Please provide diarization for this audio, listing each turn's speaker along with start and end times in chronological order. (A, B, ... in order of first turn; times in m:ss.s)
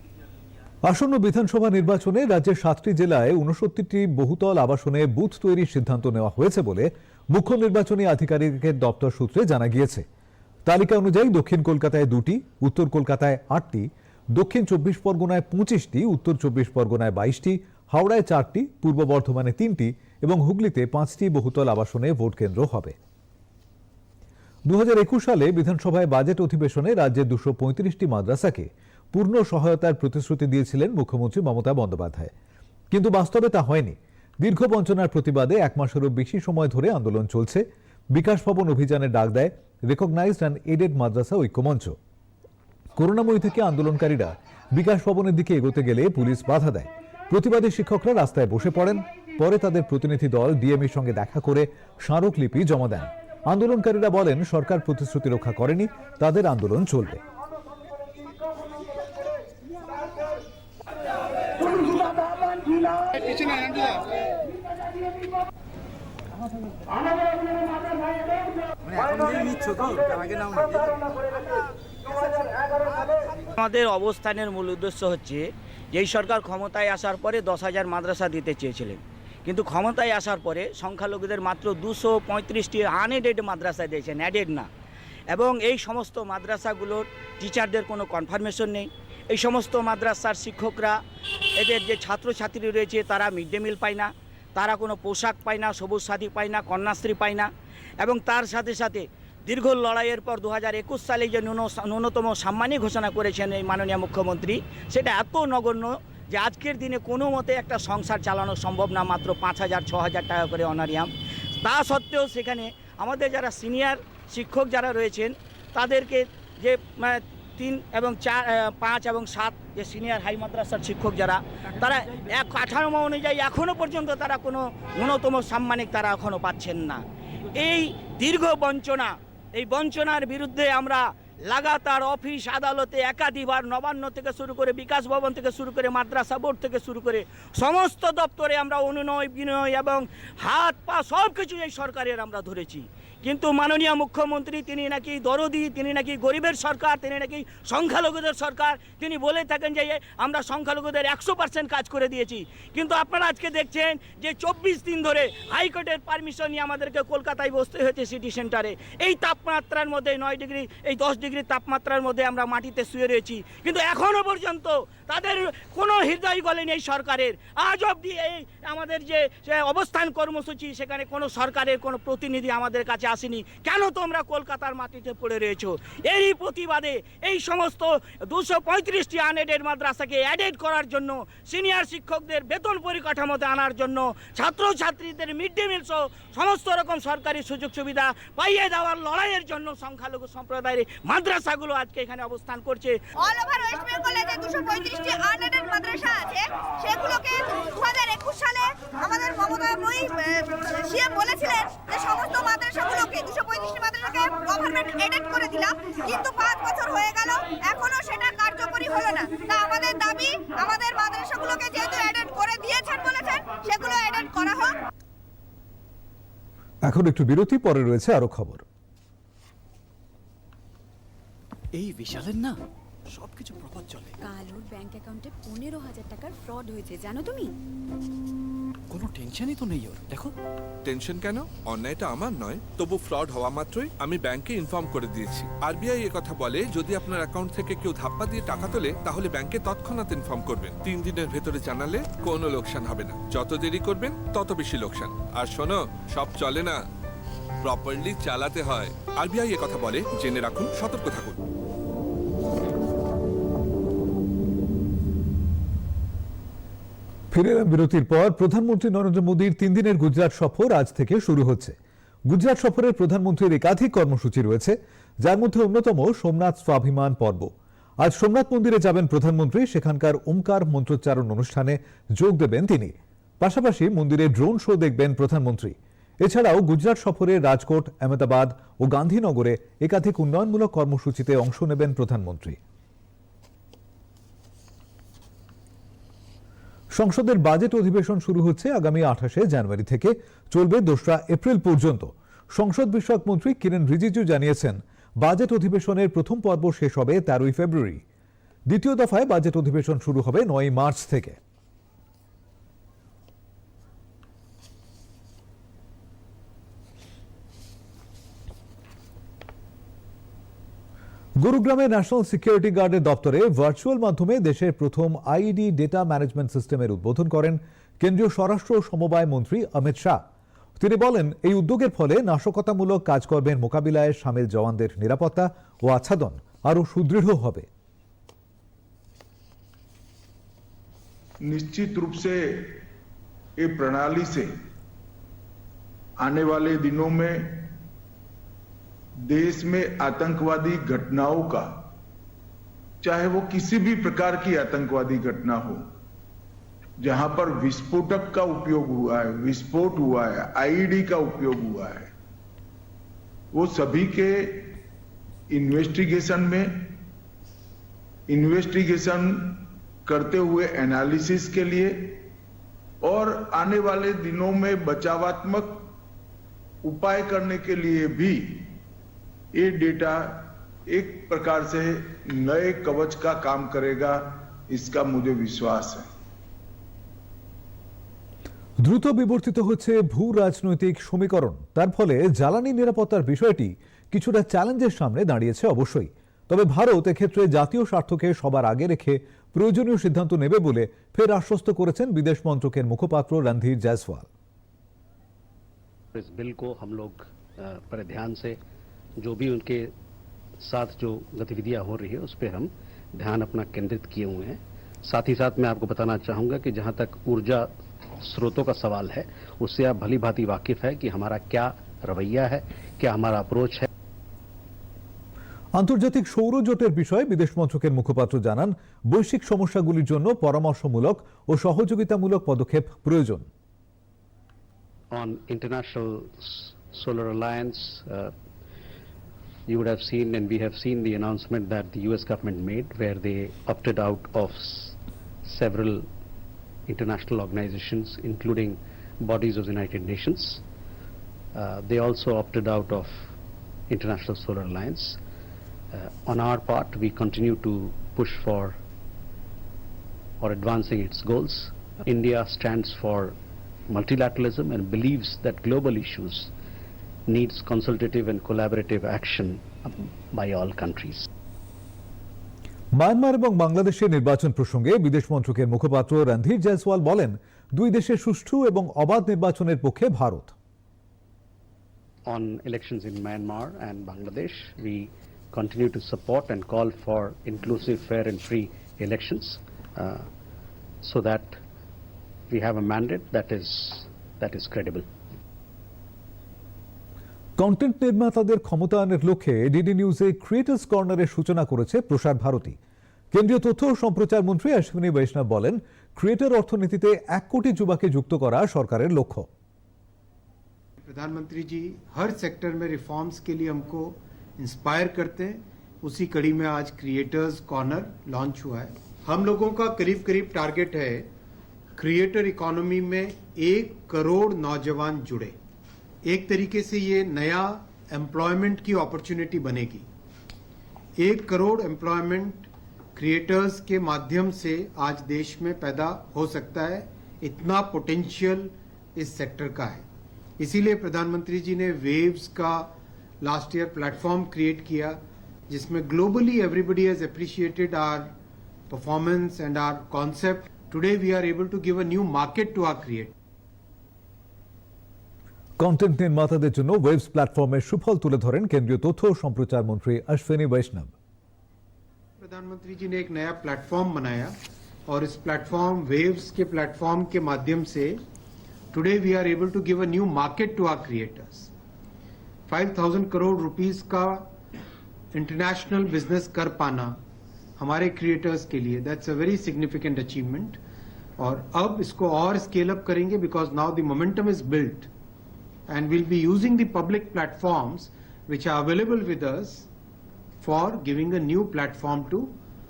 0:00.8-0:10.0 A
0:10.6-0:23.0 A
0:24.7-0:32.3 A
0:32.9-0:42.0 A
0:43.0-0:57.2 A
1:08.9-1:10.9 B
1:13.6-1:24.7 C
1:25.3-1:31.0 C
1:31.6-1:37.5 C
1:38.0-1:51.1 C
1:51.6-3:13.0 C
3:13.2-3:34.8 D
3:36.8-3:38.6 A
3:41.7-3:42.6 B
3:43.1-3:44.2 B
3:44.2-3:47.5 E
3:48.9-3:50.3 B
3:50.8-4:06.8 F
4:07.6-4:11.4 F
4:17.3-4:21.8 A
4:22.3-4:42.6 A
4:46.9-4:58.0 A
4:58.7-5:01.4 A
5:11.4-5:20.2 A
5:20.8-5:27.7 A
5:31.4-5:32.8 G
5:33.6-5:34.5 G
5:36.2-5:37.7 G
5:39.3-5:41.8 G
5:43.0-5:45.9 G
5:47.0-5:52.1 G
5:53.5-5:54.8 G
5:55.5-5:56.9 G
5:58.3-6:02.2 G
6:03.0-6:05.9 G
6:06.8-6:08.7 G
6:09.5-6:16.1 G
6:18.8-6:34.3 A
6:36.1-6:38.6 H
6:39.2-6:39.9 H
6:40.6-6:53.9 H
6:55.7-7:03.4 A
7:05.1-7:08.3 H
7:09.7-7:16.1 H
7:16.9-7:20.6 H
7:21.6-7:23.2 H
7:23.9-7:25.2 H
7:25.9-7:28.8 H
7:30.4-7:33.4 H
7:33.9-7:36.5 H
7:37.3-7:41.3 H
7:42.9-7:50.5 A
7:52.3-8:00.3 H
8:01.0-8:01.6 H
8:02.5-8:05.0 H
8:07.6-8:12.8 A
8:13.3-8:19.5 A
8:21.0-8:31.3 I
8:32.0-8:35.6 I
8:36.2-8:40.1 I
8:41.2-8:50.0 I
8:50.6-8:52.9 I
8:53.4-8:58.3 I
8:58.9-9:03.3 I
9:05.8-9:11.1 A
9:12.4-9:14.5 I
9:15.1-9:18.2 I
9:18.9-9:21.7 I
9:22.7-9:24.5 I
9:25.3-9:27.2 I
9:27.8-9:30.8 I
9:31.4-9:35.1 I
9:35.9-9:39.9 I
9:40.6-9:42.5 I